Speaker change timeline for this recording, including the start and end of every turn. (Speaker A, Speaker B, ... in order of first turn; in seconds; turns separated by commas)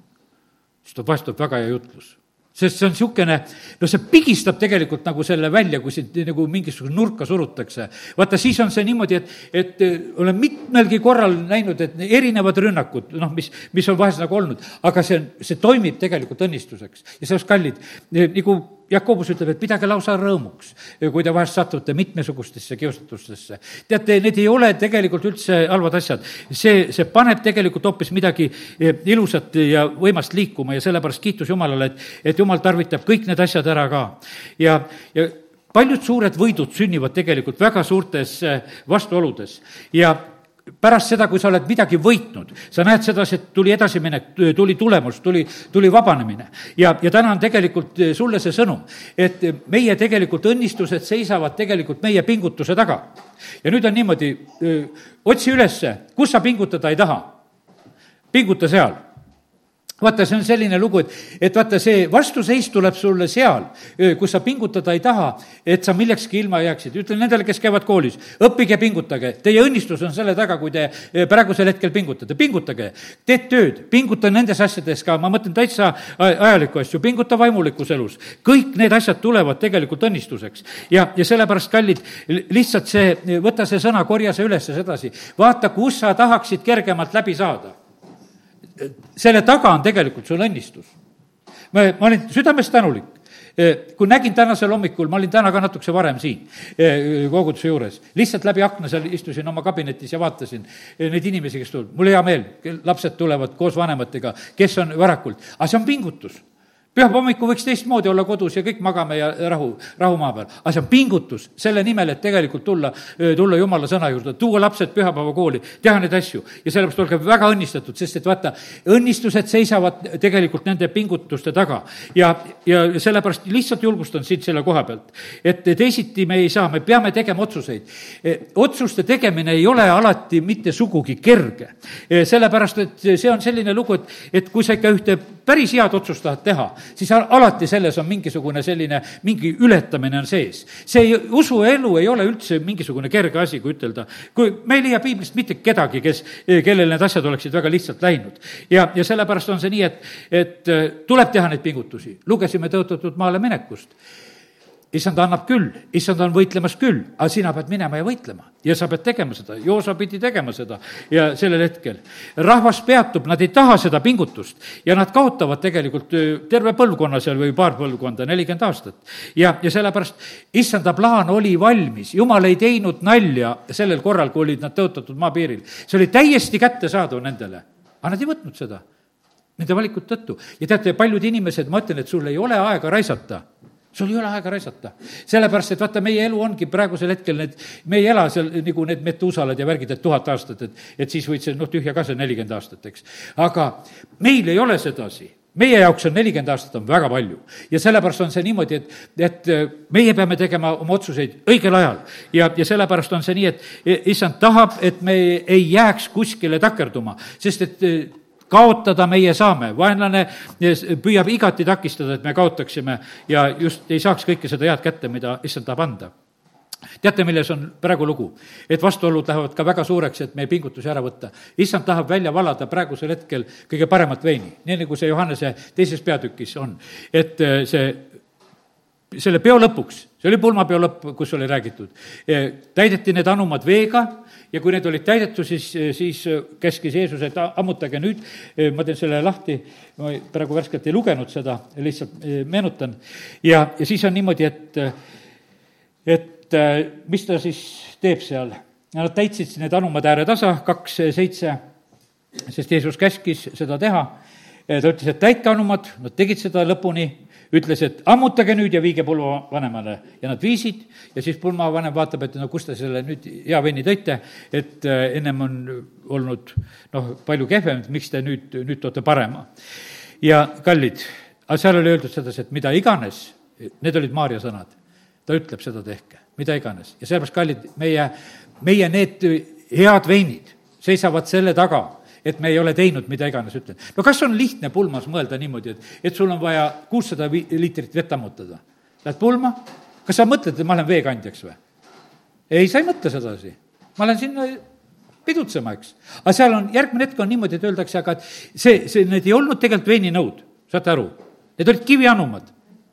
Speaker A: 0.8-40.2, Speaker A: 40.8-53.1, Speaker A: 53.6-57.3, Speaker A: 58.3-59.0, Speaker A: 60.0-87.8, Speaker A: 88.8-90.9, Speaker A: 91.7-106.4, Speaker A: 107.0-153.9, Speaker A: 154.9-178.8, Speaker A: 179.6-183.4, Speaker A: 183.9-216.1, Speaker A: 217.0-228.1, Speaker A: 229.1-244.9, Speaker A: 246.1-251.6, Speaker A: 252.5-254.1, Speaker A: 254.7-269.5, Speaker A: 270.2-274.7, Speaker A: 275.3-291.6, Speaker A: 292.5-294.6, Speaker A: 295.3-302.5